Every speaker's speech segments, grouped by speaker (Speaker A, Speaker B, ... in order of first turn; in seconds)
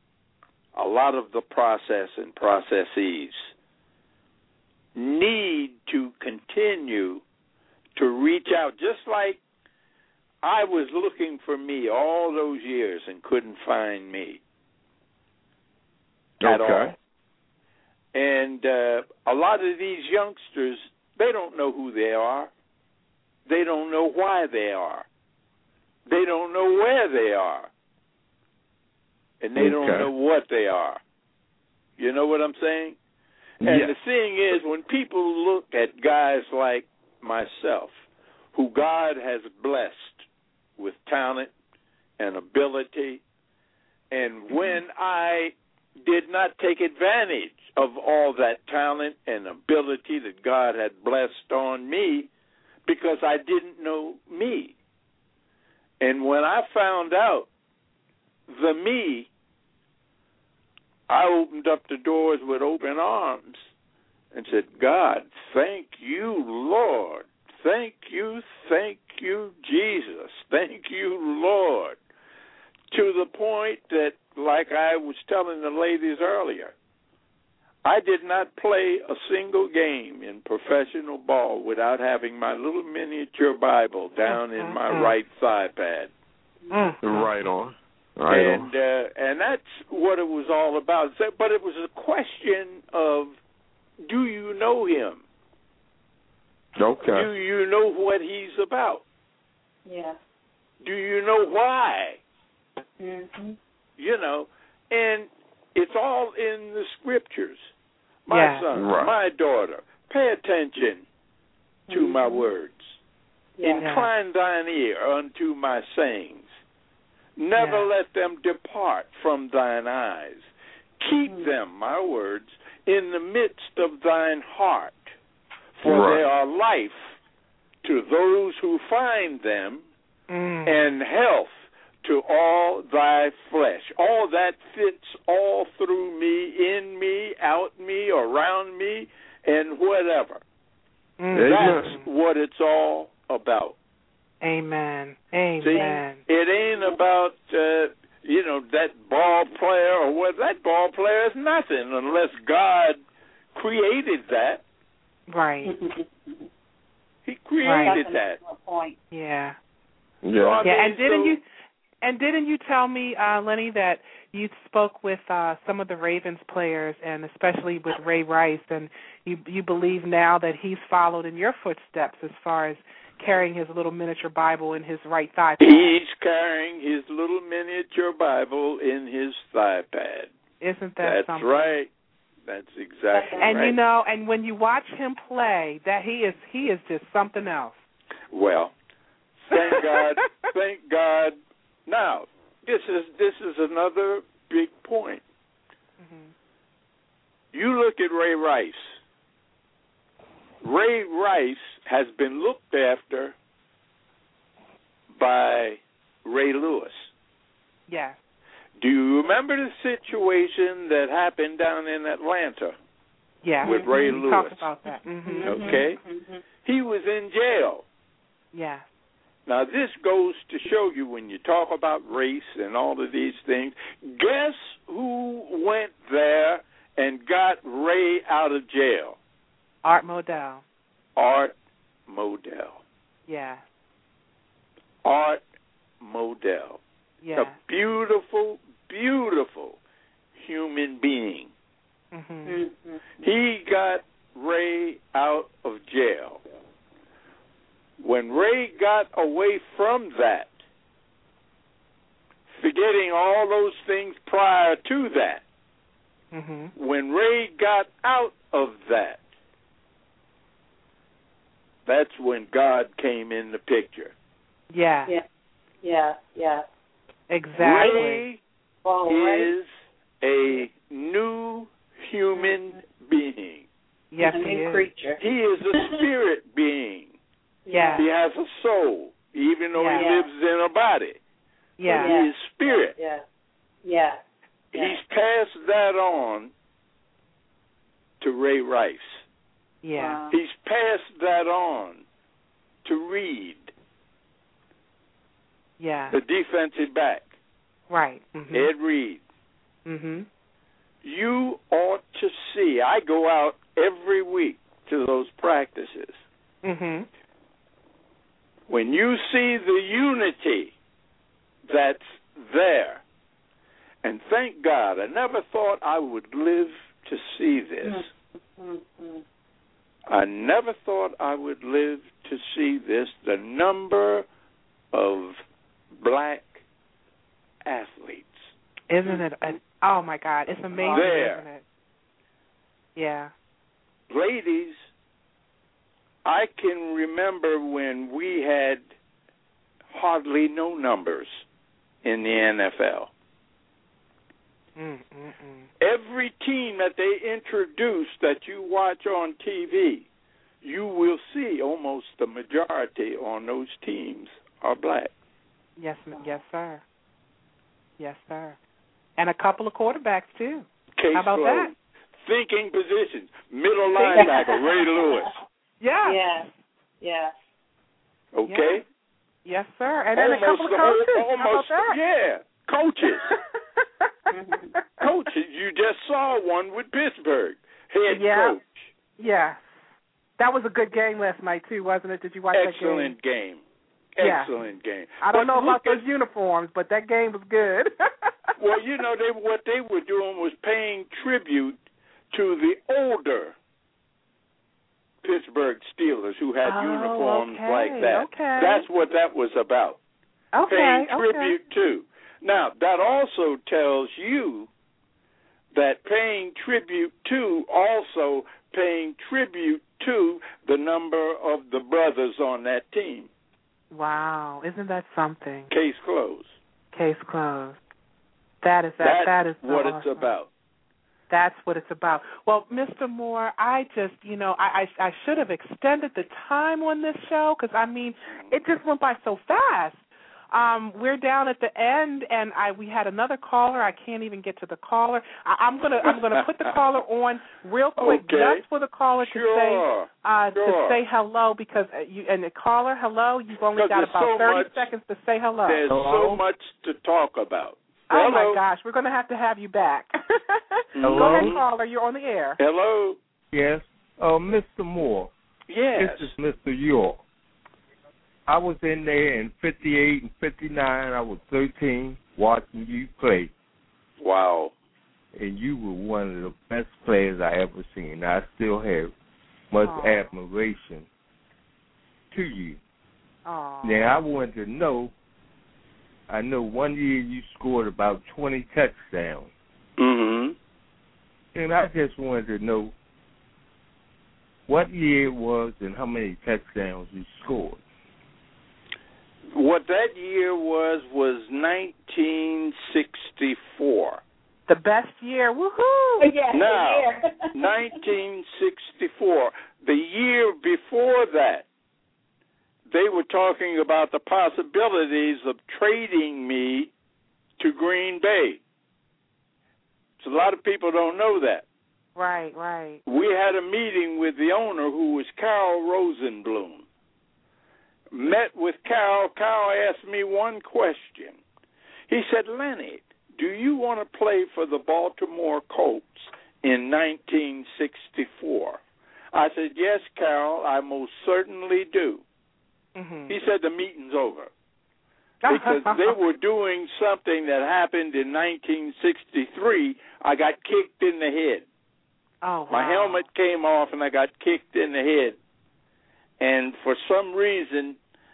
Speaker A: 0.7-3.5, 5.0-7.2, 8.0-9.4, 10.4-14.4, 16.4-16.9, 18.1-22.5, 23.5-25.1, 26.1-27.7, 29.4-31.0, 32.0-33.0, 33.6-37.9, 38.5-40.2, 40.8-41.5, 42.2-43.2, 44.1-52.3, 52.9-54.8, 56.0-57.5, 58.5-59.3, 61.1-63.6, 64.3-72.0, 72.9-76.7, 77.8-86.1, 88.3-93.4, 94.0-95.2, 97.1-99.0, 100.8-102.2, 104.0-107.7, 108.2-111.0, 111.9-113.0, 113.6-116.5, 117.4-120.5, 121.0-125.1, 125.8-127.0, 127.8-129.8, 130.7-140.4, 141.4-143.8, 145.6-153.0, 153.5-154.6, 157.2-158.4, 160.4-161.4, 175.6-180.3, 181.0-181.9, 182.5-183.8, 188.3-188.7, 189.4-195.2, 197.5-198.9, 200.6-203.3, 205.1-207.1, 208.8-212.8, 213.6-214.7, 215.4-216.0, 216.6-217.8, 219.5-229.2, 231.2-231.5, 232.1-232.8, 235.0-235.4, 236.0-236.8, 237.3-239.8, 240.4-241.5, 243.2-246.4, 248.0-250.5, 252.5-255.4, 256.8-259.2, 261.9-264.1, 267.6-268.4, 269.1-269.7, 270.2-273.7, 275.2-277.1, 278.0-281.2, 281.9-282.9, 284.7-286.5, 288.2-289.2, 290.3-292.0, 292.9-293.7, 296.1-297.3, 298.5-299.2, 301.0-306.2, 308.7-310.7, 311.7-313.0, 314.0-318.1, 320.1-324.3, 324.9-325.4, 325.9-326.6, 327.6-328.5, 330.9-331.4, 334.1-334.8, 336.2-338.8, 339.9-341.4, 342.0-343.1, 345.8-350.1, 350.6-355.1, 361.0-365.3, 368.3-368.8, 370.1-373.3, 375.0-378.9, 382.5-383.6, 384.2-386.0, 388.6-391.8, 392.3-393.6, 395.2-400.0, 400.6-404.7, 405.7-413.3, 415.7-416.6, 419.0-420.5, 436.0-436.7, 438.0-438.6, 439.2-441.0, 443.8-444.9, 445.7-448.6, 450.9-451.6, 452.6-453.2, 455.7-456.3, 464.2-464.7, 480.0-480.6, 489.5-494.2, 496.5-501.7, 502.9-506.9, 507.6-508.6, 510.2-511.6, 513.1-516.9, 518.1-521.4, 522.1-528.8, 529.3-532.2, 533.3-534.5, 535.5-541.7, 542.7-545.4, 546.4-548.0
Speaker B: 16.4-16.9, 29.6-30.1, 33.6-33.9, 87.0-88.7, 96.8-97.3, 108.7-109.1, 125.8-126.2, 141.3-142.0, 160.2-160.7
Speaker C: 84.3-85.2, 86.7-87.3, 108.3-108.7, 113.8-114.1, 117.6-117.9, 130.3-130.8, 141.2-142.1, 144.4-146.2, 155.3-155.7, 157.6-158.0, 159.1-159.6, 160.6-161.4, 162.0-175.9, 180.6-181.6, 183.4-187.8, 189.5-190.0, 196.0-196.3, 207.9-208.2, 213.4-215.8, 218.5-218.8, 229.8-230.6, 233.3-233.6, 237.2-237.6, 242.1-242.6, 256.3-256.7, 264.7-265.1, 267.3-268.2, 274.1-274.9, 277.7-278.1, 279.8-280.1, 281.8-282.1, 289.8-290.2, 295.8-296.2, 297.9-298.7, 299.9-300.3, 306.6-307.1, 328.9-331.6, 333.0-333.3, 344.8-345.7, 355.8-356.8, 358.0-358.6, 359.2-361.7, 365.8-366.5, 368.5-368.8, 369.4-372.0, 373.3-374.1, 378.1-378.6, 379.2-379.6, 380.4-383.1, 384.2-384.5, 385.2-388.5, 396.6-398.9, 400.5-401.6, 413.9-415.7, 416.9-417.8, 418.6-420.3, 421.3-445.8, 448.1-452.6, 469.8-470.3, 473.5-474.2, 494.7-496.3, 512.2-513.0, 533.0-533.3, 535.4-536.1, 542.4-543.3
Speaker D: 99.9-100.2, 103.0-103.6, 111.9-112.5, 113.6-113.9, 145.7-147.0, 155.6-156.5, 157.8-159.0, 183.1-183.7, 213.6-214.2, 215.2-216.4, 242.5-243.0, 265.8-266.7, 267.8-268.0, 268.8-269.5, 272.4-272.8, 274.2-275.2, 277.7-278.1, 279.9-280.3, 281.9-283.2, 283.8-284.2, 289.9-290.4, 317.8-319.2, 329.0-329.5, 330.7-331.1, 364.0-365.2, 366.0-366.5, 367.0-367.3, 374.3-374.8, 496.2-497.5
Speaker E: 445.9-446.4, 451.0-451.6, 453.5-455.3, 455.9-457.2, 458.5-463.5, 465.3-469.1, 469.7-471.1, 472.3-472.8, 473.8-475.1, 476.3-479.5, 481.5-482.9, 484.7-487.8